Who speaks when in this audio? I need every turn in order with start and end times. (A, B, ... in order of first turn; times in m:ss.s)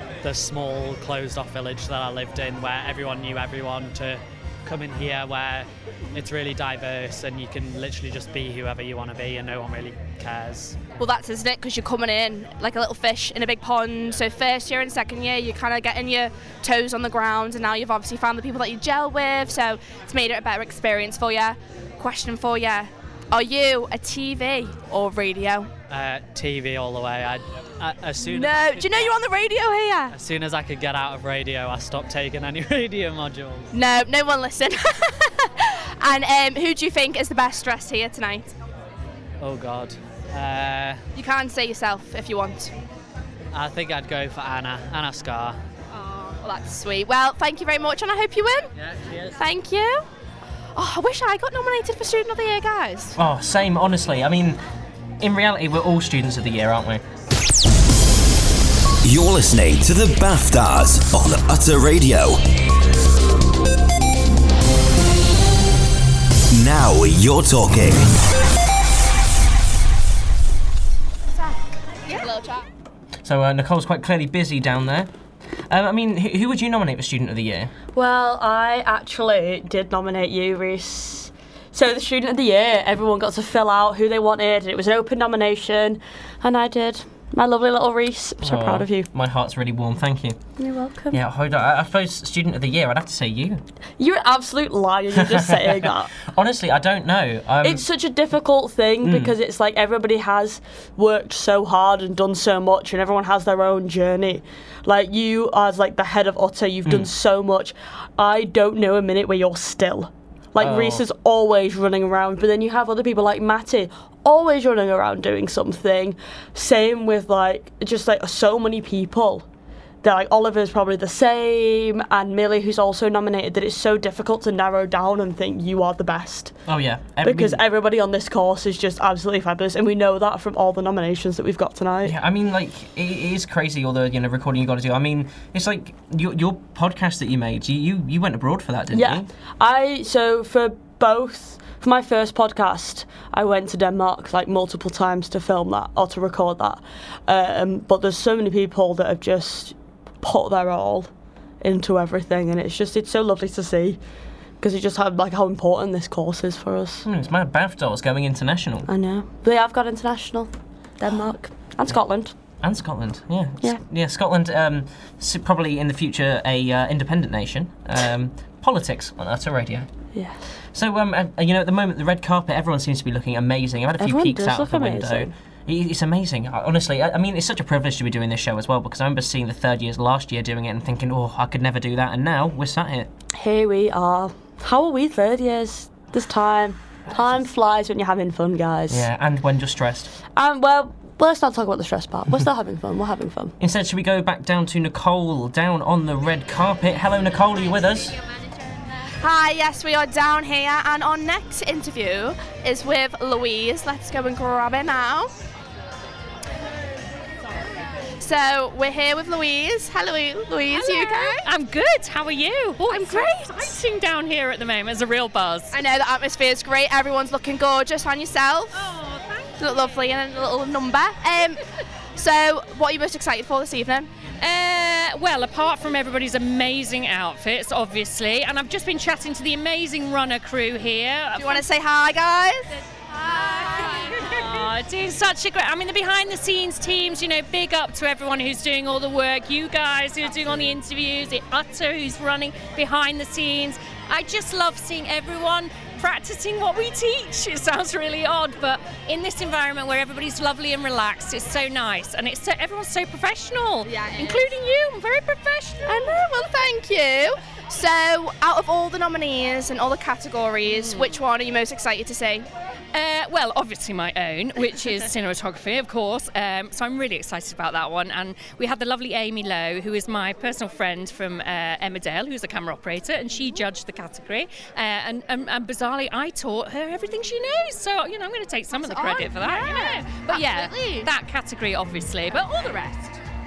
0:00.2-0:10.8 A
0:11.0-0:25.7 B
0:25.9-0:29.1 A
0:28.2-0:30.1 B
0:30.1-0:33.7 A
0:33.7-0:38.5 B
0:39.4-0:41.0 A
0:41.1-0:42.7 B
0:43.5-0:45.6 A
0:46.0-0:48.7 B
0:48.8-0:49.4 A
0:49.4-0:50.0 B
0:50.8-0:53.2 B
0:53.2-0:54.6 C
0:55.2-0:57.0 C
0:59.0-1:02.4 D
1:06.5-1:08.0 D
1:12.0-1:12.6 B
1:13.2-1:15.1 C
1:15.7-1:17.7 C
1:17.9-1:29.1 E
1:28.4-1:30.4 C
1:30.6-1:31.2 E
1:31.1-1:33.6 C
1:34.0-1:36.1 E
1:35.2-1:37.8 C
1:37.6-1:59.4 E
1:39.0-1:39.3 C
1:50.6-1:51.0 C
2:00.0-2:06.5 E
2:06.7-2:07.6 C
2:07.2-2:12.1 E
2:12.0-2:19.3 C
2:18.9-2:31.1 E
2:31.6-2:34.0 E
2:34.6-2:37.0 E
2:37.0-2:38.9 C
2:38.9-2:42.3 E
2:42.6-2:49.9 C
2:50.1-2:50.4 E
2:50.7-3:03.1 C
2:54.0-2:55.3 E
3:03.3-3:09.0 E
3:08.9-3:10.1 C
3:10.3-3:13.5 E
3:13.6-3:18.2 C
3:19.2-3:25.4 B
3:28.2-3:31.4 B
3:30.7-3:35.8 F
3:32.9-3:33.7 B
3:35.7-3:38.9 B
3:38.8-3:39.9 F
3:39.6-3:41.6 B
3:42.2-3:44.1 B
3:44.4-3:51.6 F
3:51.4-3:52.7 B
3:53.3-4:16.2 F
4:15.8-4:22.5 B
4:22.9-4:43.1 F
4:40.3-4:40.9 B